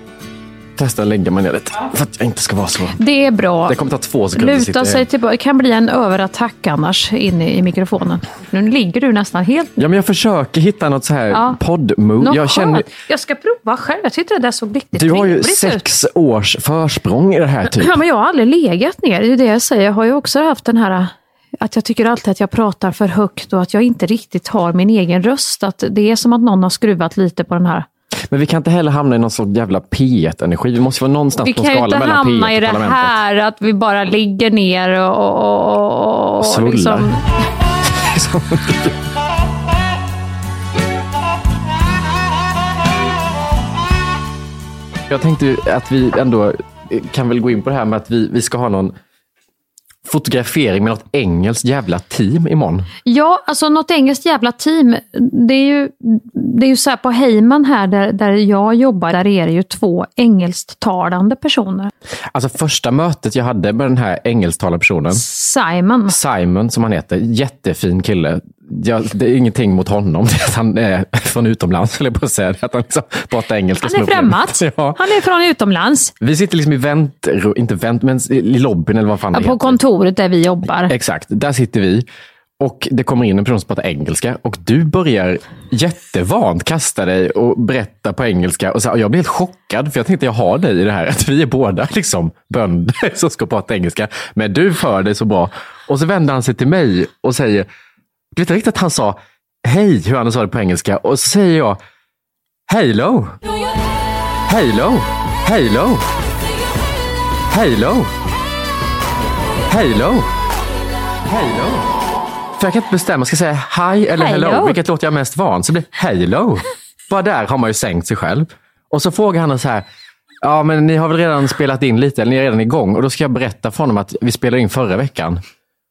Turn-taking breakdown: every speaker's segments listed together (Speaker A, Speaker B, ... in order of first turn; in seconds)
Speaker A: 0.8-3.0, 3.7-5.0, 9.8-12.9, 15.0-18.0, 28.3-33.1, 36.4-37.2, 37.9-39.0, 45.1-49.0, 50.1-52.9, 62.3-65.2, 66.1-75.0, 76.2-79.8, 80.9-82.0, 82.6-97.7, 98.3-101.8, 102.7-103.4, 104.5-106.0, 107.5-108.1, 109.7-110.3, 111.3-111.9, 112.6-119.9, 120.4-125.4
Speaker B: 3.0-3.8, 4.4-9.8, 11.3-11.6, 12.2-15.8, 17.7-27.9, 31.4-37.2, 53.1-61.9, 65.1-66.2, 73.8-76.1, 79.3-80.9, 114.2-114.8